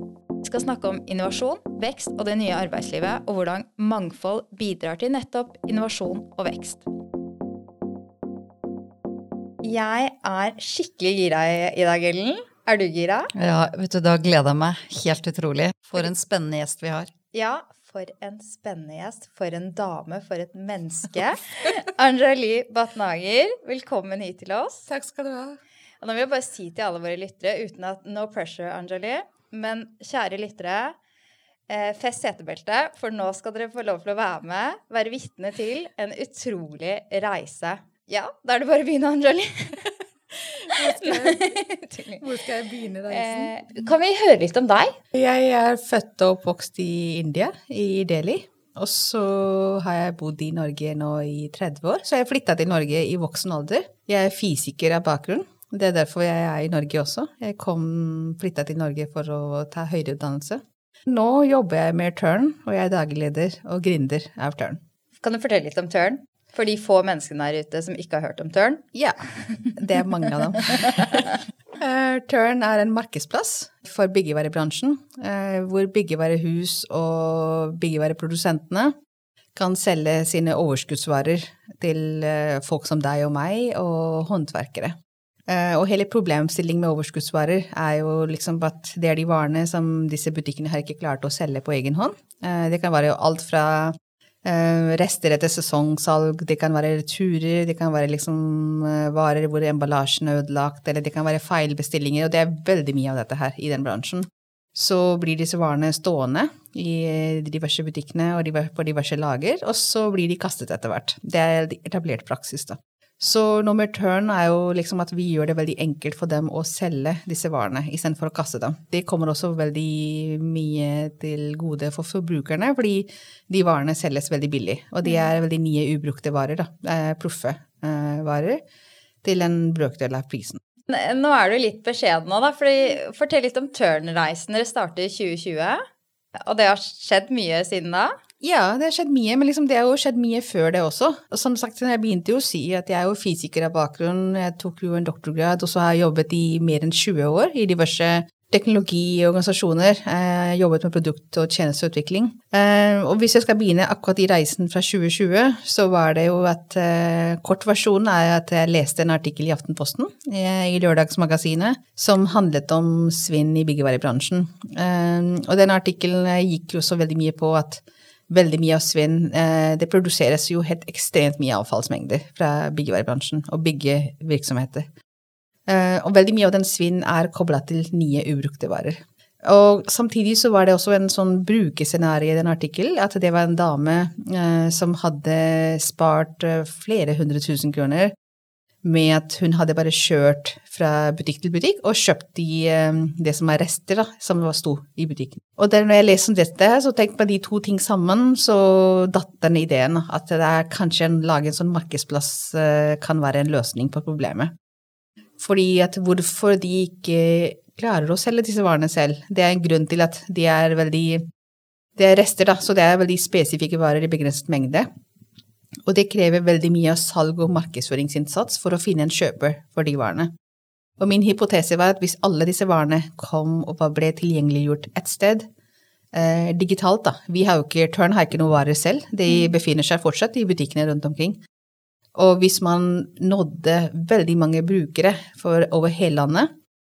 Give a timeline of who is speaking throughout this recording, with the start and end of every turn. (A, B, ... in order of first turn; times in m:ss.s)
0:00.4-0:06.8 A
0:09.6-0:13.3 A
0:13.4-0:17.1 B
0:17.3-0:24.9 A
0:24.9-0:25.6 C
0:26.0-0:31.0 A
0:31.7-0:39.9 A
0:40.6-0:41.6 C
0:41.0-0:42.2 A
0:42.2-0:43.8 C
0:43.1-0:44.9 A
0:45.1-1:04.8 C
1:05.2-1:09.7 A
1:09.8-1:11.3 C
1:11.8-1:18.9 C
1:19.6-1:25.0 C
1:25.5-2:08.6 C
2:05.0-2:05.3 A
2:09.2-2:10.6 C
2:10.9-2:15.8 A
2:16.4-2:18.1 A
2:18.4-2:54.9 C
2:55.7-3:08.1 C
3:08.8-3:24.5 C
3:25.4-3:31.2 C
3:32.0-3:34.9 C
3:35.9-3:40.3 C
3:41.0-3:45.5 C
3:46.1-3:51.4 C
3:49.3-3:49.5 A
3:52.2-3:56.5 C